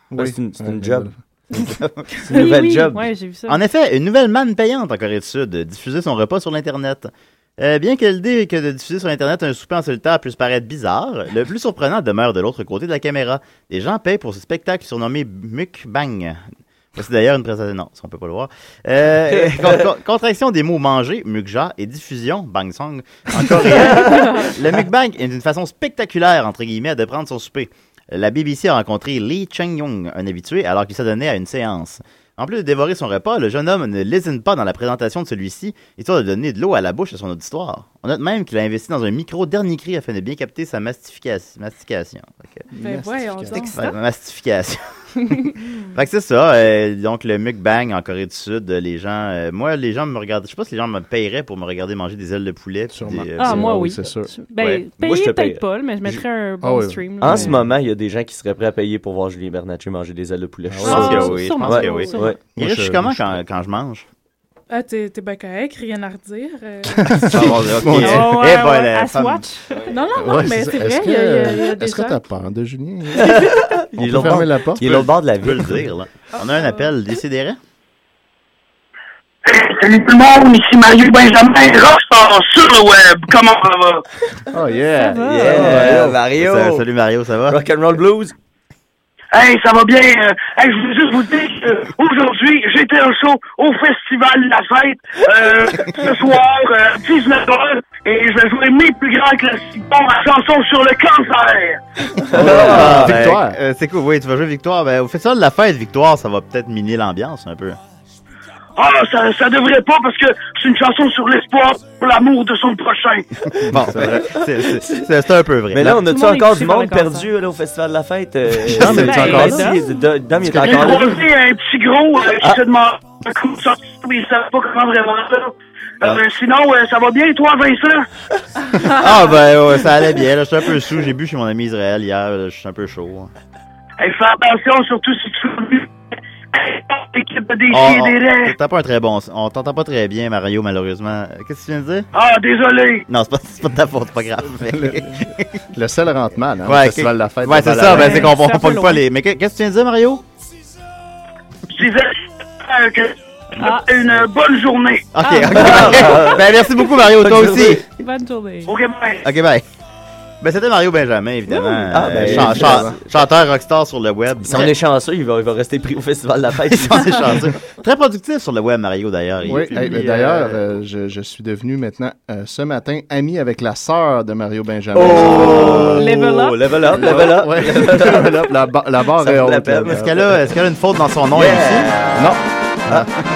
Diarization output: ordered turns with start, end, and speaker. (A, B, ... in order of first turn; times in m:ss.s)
0:00.1-0:01.2 A
0:00.2-0:01.1 B
0:01.6-0:02.2 C
0:02.3-0:03.6 D
0:02.3-0:03.0 B
0:03.5-0:16.4 C
0:17.0-0:42.7 C
0:19.3-0:19.9 B
0:23.5-0:24.5 B
0:42.7-0:43.7 A
0:42.8-0:43.8 E
0:43.5-0:54.0 C
0:43.6-0:43.9 D
0:52.9-0:54.3 A
0:53.4-0:57.6 D
0:54.6-0:54.8 C
0:55.0-0:55.6 B
0:56.6-0:57.6 A
0:57.2-1:02.4 B
1:00.7-1:01.2 A
1:00.8-1:04.1 C
1:00.8-1:02.3 D
1:02.5-1:03.4 A
1:04.7-1:07.2 E
1:06.9-1:08.4 A
1:07.1-1:09.4 C
1:07.9-1:09.6 D
1:09.9-1:12.2 E
1:10.2-1:13.4 A
1:13.1-1:15.9 B
1:13.2-1:13.6 E
1:14.0-1:15.0 A
1:14.2-1:17.6 C
1:16.4-1:16.8 E
1:19.4-1:24.0 F
1:24.5-1:26.2 A
1:25.0-1:25.8 D
1:25.3-1:26.8 B
1:25.7-1:27.6 C
1:27.5-1:28.4 B
1:29.3-1:41.8 F
1:42.3-1:43.1 B
1:42.3-1:43.6 A
1:42.3-1:47.8 C
1:48.8-1:53.3 F
1:53.6-1:56.0 C
1:54.0-1:54.2 B
1:55.7-2:01.2 B
1:55.9-1:57.3 D
1:58.7-1:59.7 A
1:58.8-2:00.0 D
1:58.8-1:59.2 C
2:00.4-2:01.0 A
2:00.6-2:08.0 F
2:08.8-2:13.3 C
2:14.0-2:15.9 F
2:16.5-2:18.6 F
2:17.7-2:22.1 C
2:22.1-2:23.0 F
2:23.1-2:25.6 C
2:24.6-2:28.4 A
2:26.6-2:30.2 C
2:27.8-2:29.0 D
2:31.7-2:35.1 F
2:33.6-2:33.9 D
2:35.1-2:37.8 C
2:35.2-2:36.3 D
2:35.5-2:37.8 B
2:38.0-2:38.7 D
2:38.6-2:39.2 F
2:39.2-2:39.6 C
2:40.4-2:44.8 C
2:41.9-2:43.2 B
2:42.0-2:43.0 A
2:44.4-2:47.3 B
2:46.7-2:50.6 C
2:49.4-3:00.4 A
2:54.9-2:58.4 B
2:55.1-2:56.0 C
2:55.3-2:57.0 D
2:59.2-3:00.2 B
2:59.9-3:02.0 C
3:01.3-3:02.3 B
3:02.1-3:03.2 A